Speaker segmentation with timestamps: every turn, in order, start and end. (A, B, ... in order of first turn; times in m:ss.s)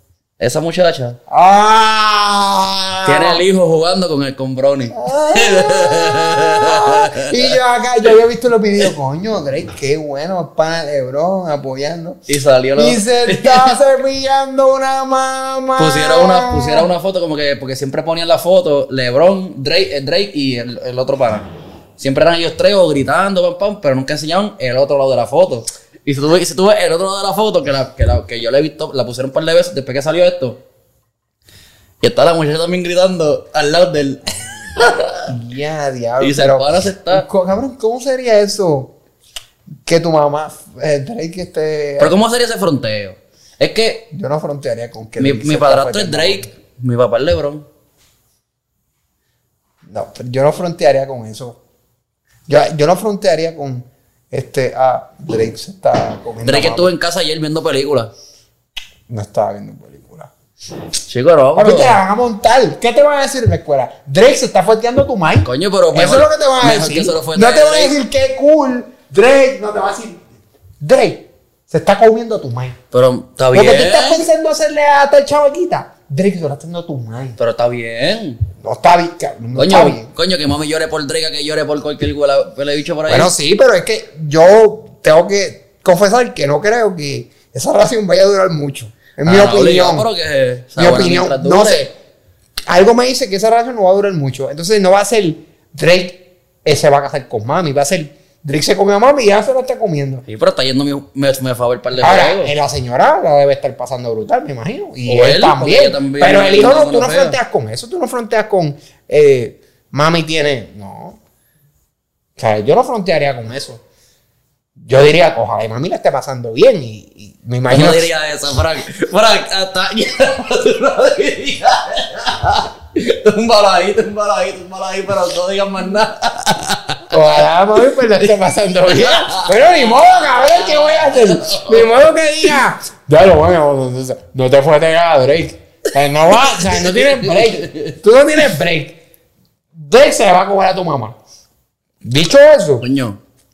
0:00.4-0:01.2 A
0:01.3-0:03.4 B
0:03.0-0:07.6 A
0:04.9-0:12.2 B
0:12.3-0:13.8 A
0:12.8-0:16.9 B
0:15.8-0:30.6 A
0:32.0-0:35.3 A
0:35.3-0:38.9 B
0:36.2-0:37.3 A
0:39.8-0:42.2 B
0:42.0-0:44.1 A
0:44.1-0:46.5 B
0:45.2-0:47.7 A
0:49.9-0:51.6 B
0:52.5-0:56.9 B
0:56.4-0:58.1 A
0:59.1-1:00.3 B
1:01.1-1:02.0 A
1:01.6-1:10.2 B
1:05.4-1:08.0 A
1:10.8-1:12.8 B
1:12.9-1:14.3 A
1:13.5-1:17.4 B
1:17.4-1:18.4 A
1:18.6-1:20.1 B
1:19.6-1:23.3 A
1:23.1-1:30.1 B
1:29.2-1:31.8 A
1:30.8-1:31.9 B
1:32.7-1:40.2 B
1:40.3-1:42.5 A
1:42.0-1:51.2 B
1:45.1-1:47.4 A
1:52.4-1:53.8 B
1:54.8-1:58.1 B
1:57.7-2:07.0 A
2:07.1-2:19.0 B
2:08.9-2:11.9 A
2:16.4-2:18.0 A
2:19.8-2:21.2 B
2:22.0-2:22.8 B
2:22.8-2:23.2 A